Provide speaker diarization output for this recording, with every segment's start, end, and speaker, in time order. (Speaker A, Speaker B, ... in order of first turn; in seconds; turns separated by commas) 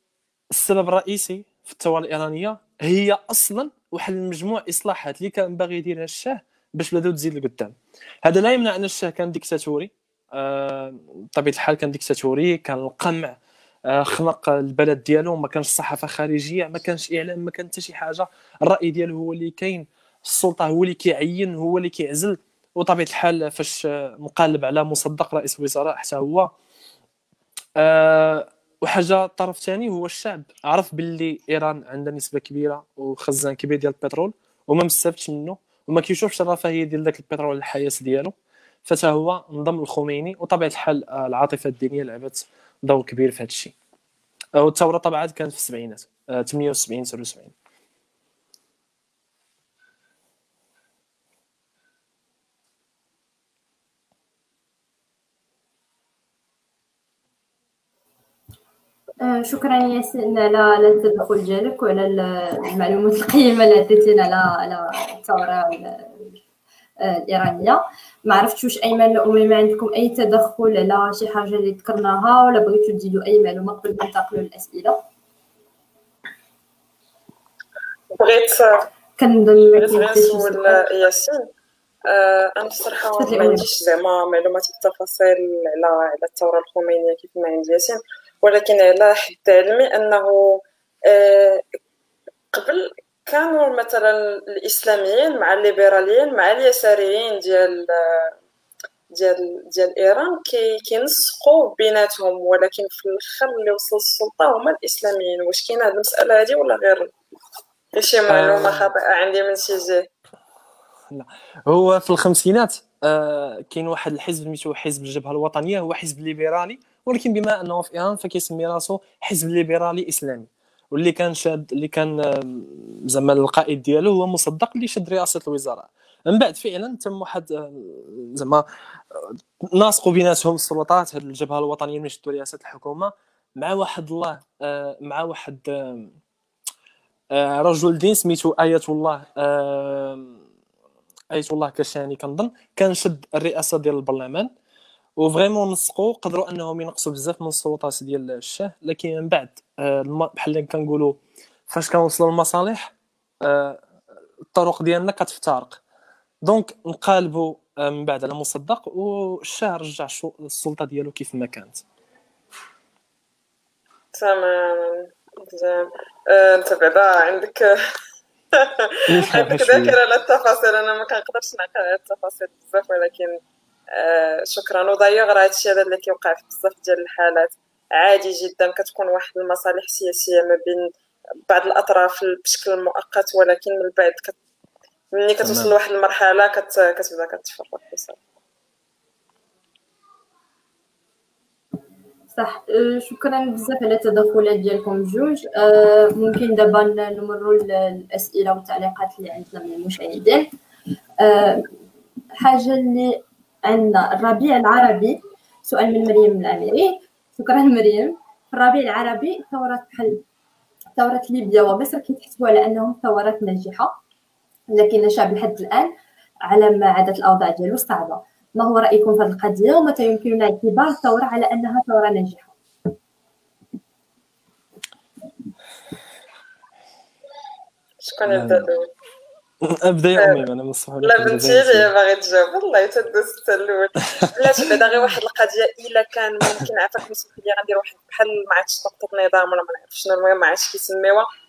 Speaker A: 0.5-13.3, Speaker A: 13.9-26.5, Speaker A: 27.8-38.3, Speaker A: 38.9-43.7, Speaker A: 44.5-47.5, Speaker B: 59.2-66.3, Speaker B: 67.0-75.0, Speaker C: 78.2-78.8, Speaker B: 79.2-80.8, Speaker C: 79.7-81.5, Speaker C: 82.1-91.6, Speaker B: 83.2-83.6, Speaker C: 92.5-98.3, Speaker C: 99.1-107.1, Speaker C: 107.9-110.1, Speaker A: 108.3-108.9, Speaker A: 111.1-136.1, Speaker A: 137.3-140.3, Speaker A: 141.3-144.5, Speaker A: 145.2-151.2, Speaker A: 151.7-152.9, Speaker A: 153.4-153.8, Speaker A: 154.5-155.8, Speaker A: 156.4-161.8, Speaker C: 164.1-167.8, Speaker C: 168.5-173.4, Speaker A: 169.1-170.0, Speaker C: 173.9-180.9, Speaker C: 181.5-184.3, Speaker C: 185.1-188.2, Speaker A: 185.4-185.7, Speaker B: 192.3-200.5, Speaker B: 201.2-201.7, Speaker B: 202.4-210.2, Speaker B: 211.0-214.0, Speaker B: 214.7-215.9, Speaker B: 216.4-222.5, Speaker C: 228.0-228.9, Speaker A: 228.2-228.7, Speaker A: 229.6-231.9, Speaker C: 230.2-230.4, Speaker C: 231.0-241.3